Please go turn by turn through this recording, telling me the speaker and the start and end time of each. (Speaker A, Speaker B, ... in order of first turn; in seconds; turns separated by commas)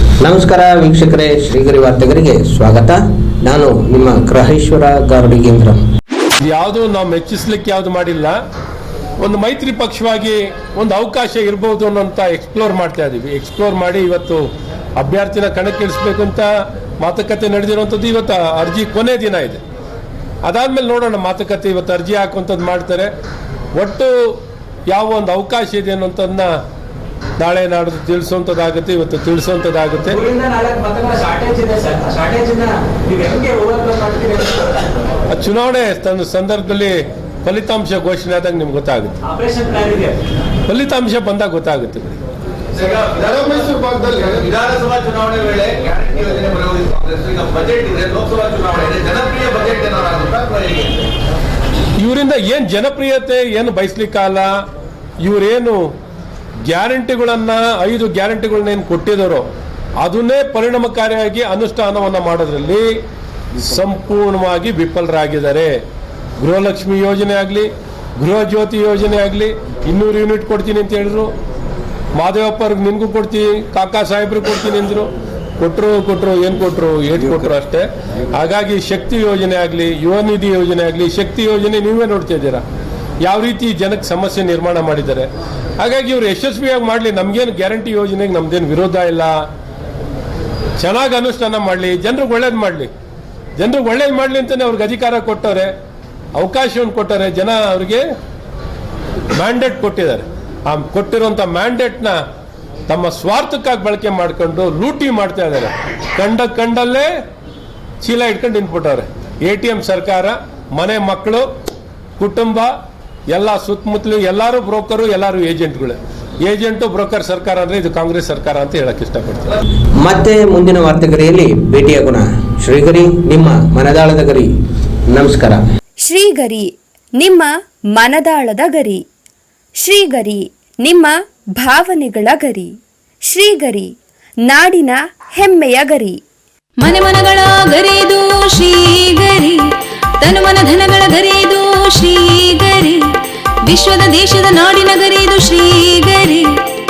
Speaker A: 0.2-5.8, Speaker B: 6.4-8.4, Speaker B: 9.2-16.5, Speaker B: 17.0-19.6, Speaker B: 20.4-23.1, Speaker B: 23.7-26.5, Speaker B: 27.4-30.2, Speaker C: 30.1-34.7, Speaker B: 35.3-39.2, Speaker C: 39.2-40.2, Speaker B: 40.7-42.2, Speaker D: 42.8-51.1, Speaker B: 52.0-54.5, Speaker B: 55.2-55.9, Speaker B: 56.6-59.5, Speaker B: 60.0-62.9, Speaker B: 63.5-65.8, Speaker B: 66.4-71.3, Speaker B: 72.1-82.6, Speaker B: 83.2-89.4, Speaker B: 90.8-92.9, Speaker B: 93.6-95.7, Speaker B: 96.3-98.0, Speaker B: 99.3-102.2, Speaker B: 102.9-107.1, Speaker B: 108.0-111.5, Speaker B: 112.2-112.7, Speaker B: 113.3-119.6, Speaker A: 120.0-124.5, Speaker A: 125.1-125.6, Speaker E: 126.0-126.7, Speaker E: 127.2-129.0, Speaker E: 129.8-132.7, Speaker E: 133.3-133.9, Speaker E: 134.5-136.2, Speaker F: 136.8-139.6, Speaker F: 140.2-143.0, Speaker F: 143.6-146.5